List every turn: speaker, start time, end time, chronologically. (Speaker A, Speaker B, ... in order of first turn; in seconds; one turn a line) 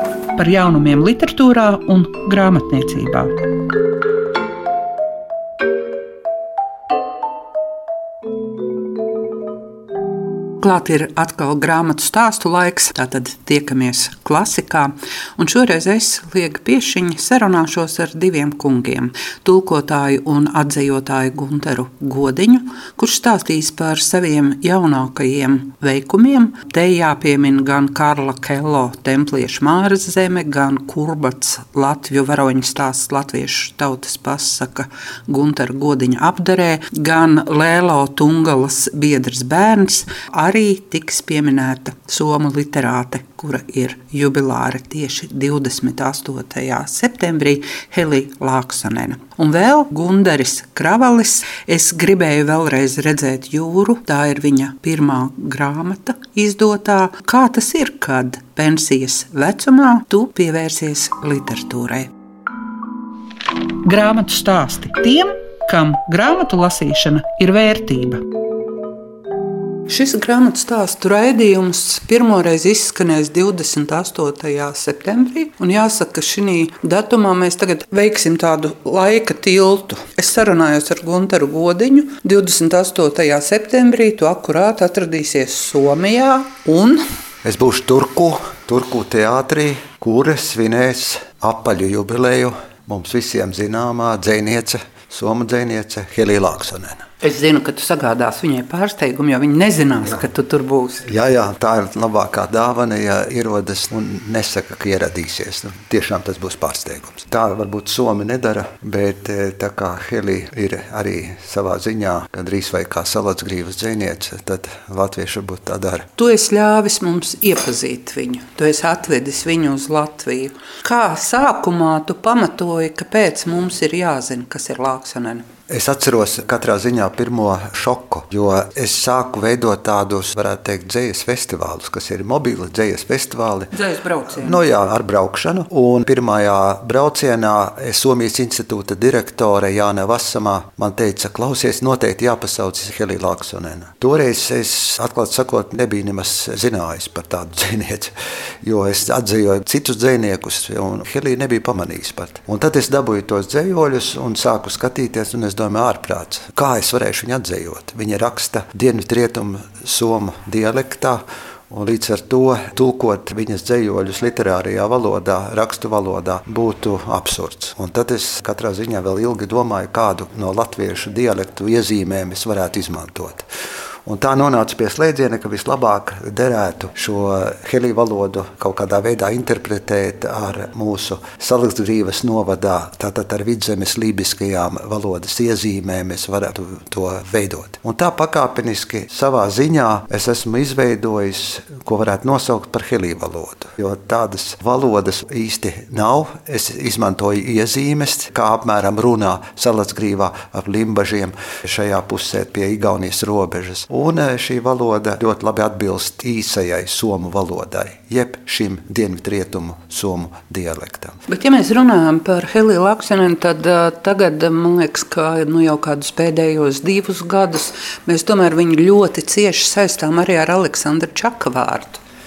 Speaker A: 0.3-3.3
Speaker A: 10.6-62.1
Speaker A: 63.8-68.2
Speaker A: 69.9-87.0
Speaker B: 87.4-97.0
Speaker A: 97.2-101.1
Speaker B: 101.0-116.1
Speaker A: 116.2-125.5
Speaker B: 125.7-133.8
Speaker A: 133.7-134.6
Speaker B: 134.3-173.4
Speaker B: 174.1-211.2
Speaker A: 211.3-222.0